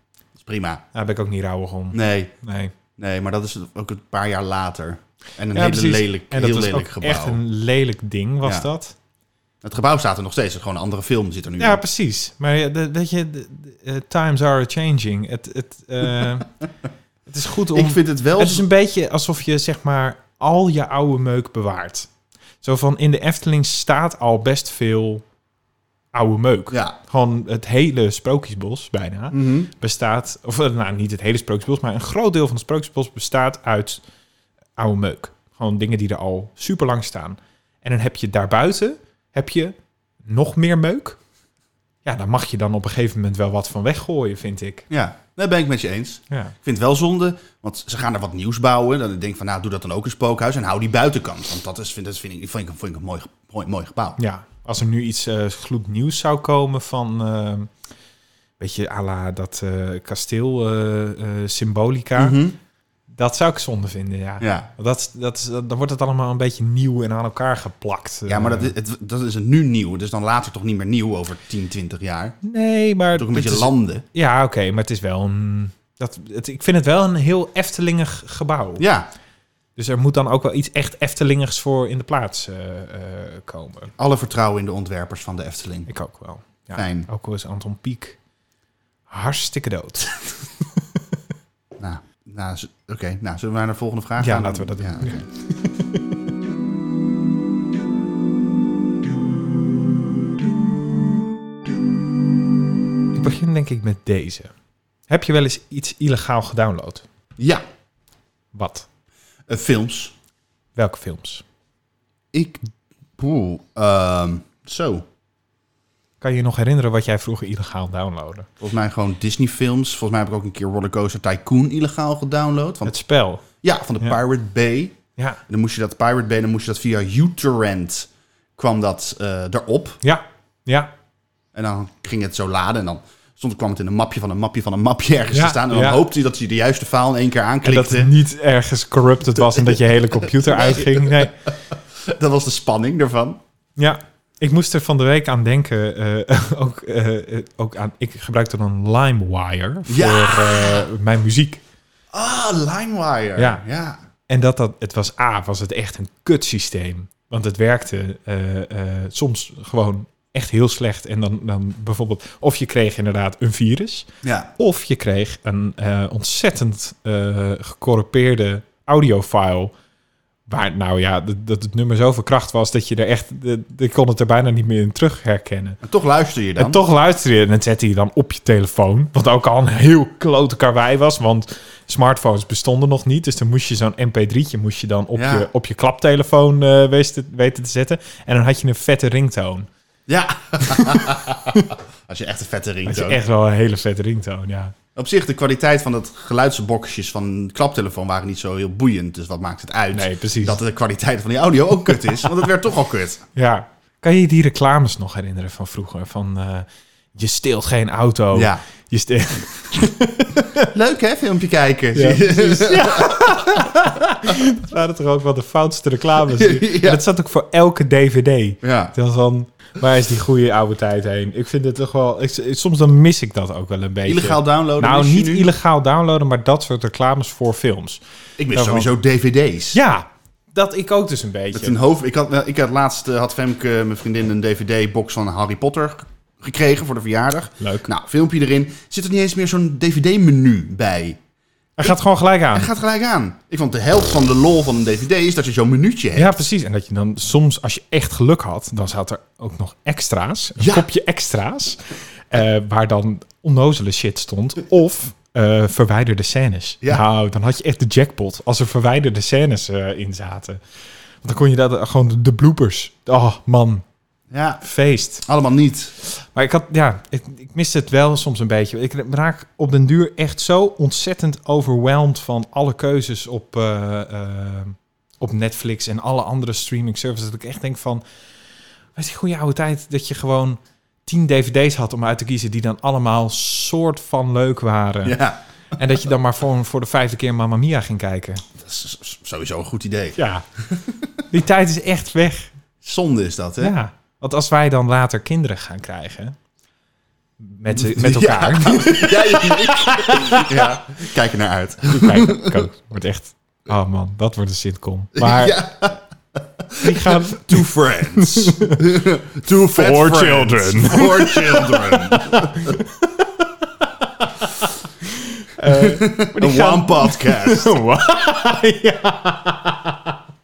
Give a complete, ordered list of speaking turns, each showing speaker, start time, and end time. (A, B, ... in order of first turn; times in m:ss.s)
0:00.4-0:00.8 A
0:00.9-0:02.7 B
0:01.9-0:02.3 A
0:03.0-0:07.4 A
0:05.5-0:09.0 B
0:09.6-0:11.8 A
0:11.6-0:16.5 B
0:17.3-0:22.1 B
0:17.7-0:18.6 A
0:22.6-0:25.2 B
0:26.1-0:34.0 B
0:29.3-0:29.7 A
0:34.8-0:41.2 B
0:42.0-0:44.9 B
0:44.9-0:54.2 A
0:54.2-0:57.7 B
0:58.6-1:02.4 B
1:02.2-1:02.6 A
1:03.1-1:08.7 B
1:04.4-1:04.7 A
1:08.3-1:12.4 A
1:12.4-1:18.8 B
1:13.1-1:14.0 A
1:18.8-1:19.1 A
1:19.8-1:23.9 B
1:24.0-1:25.9 A
1:25.9-1:28.2 B
1:26.8-1:27.1 A
1:29.1-1:30.1 B
1:31.8-1:35.3 A
1:34.2-1:36.1 B
1:43.1-1:44.5 B
1:45.1-1:47.0 B
1:47.4-1:47.6 A
1:48.5-1:48.9 B
1:49.5-1:50.1 A
1:50.8-1:51.4 B
1:52.3-1:52.6 A
1:53.2-1:55.0 A
1:56.2-1:58.5 B
1:58.6-2:02.9 A
2:02.8-2:03.4 B
2:03.5-2:05.0 A
2:05.5-2:10.0 A
2:10.0-2:10.9 B
2:11.5-2:18.1 A
2:15.3-2:16.0 B
2:17.6-2:21.4 B
2:19.4-2:23.4 A
2:23.8-2:31.6 B
2:29.9-2:30.9 A
2:32.1-2:34.0 A
2:33.4-2:33.6 B
2:34.3-2:49.7 B
2:44.2-2:44.5 A
2:50.5-2:55.8 B
2:55.8-2:56.8 A
2:56.6-3:09.7 B
3:05.2-3:05.5 A
3:10.1-3:13.2 A
3:10.6-3:11.7 B
3:12.8-3:14.8 B
3:15.0-3:23.2 A
3:19.9-3:20.6 B
3:23.4-3:30.7 B
3:28.3-3:28.6 A
3:30.6-3:33.4 A
3:31.9-3:48.0 B
3:36.3-3:37.0 A
3:38.6-3:38.9 A
3:44.1-3:45.5 A
3:48.4-3:49.8 A
3:48.5-3:48.9 B
3:49.7-3:51.8 B
3:51.5-4:01.2 A
3:57.6-3:57.9 B
4:01.8-4:02.7 B
4:02.5-4:06.4 A
4:06.2-4:20.6 B
4:10.6-4:10.9 A
4:21.2-4:23.8 B
4:24.3-4:24.6 A
4:24.6-4:25.2 B
4:25.2-4:25.9 A
4:26.0-4:38.0 B
4:39.0-4:45.2 B
4:45.0-4:45.4 A
4:45.8-4:48.4 B
4:48.6-4:51.0 A
4:50.2-4:50.4 B
4:51.3-4:52.5 B
4:52.8-4:53.8 A
4:53.6-4:56.4 B
4:57.4-5:00.6 B
4:57.7-5:02.7 A
5:01.9-5:05.6 B
5:05.2-5:12.8 A
5:06.8-5:08.8 B
5:09.7-5:20.2 B
5:15.7-5:17.7 A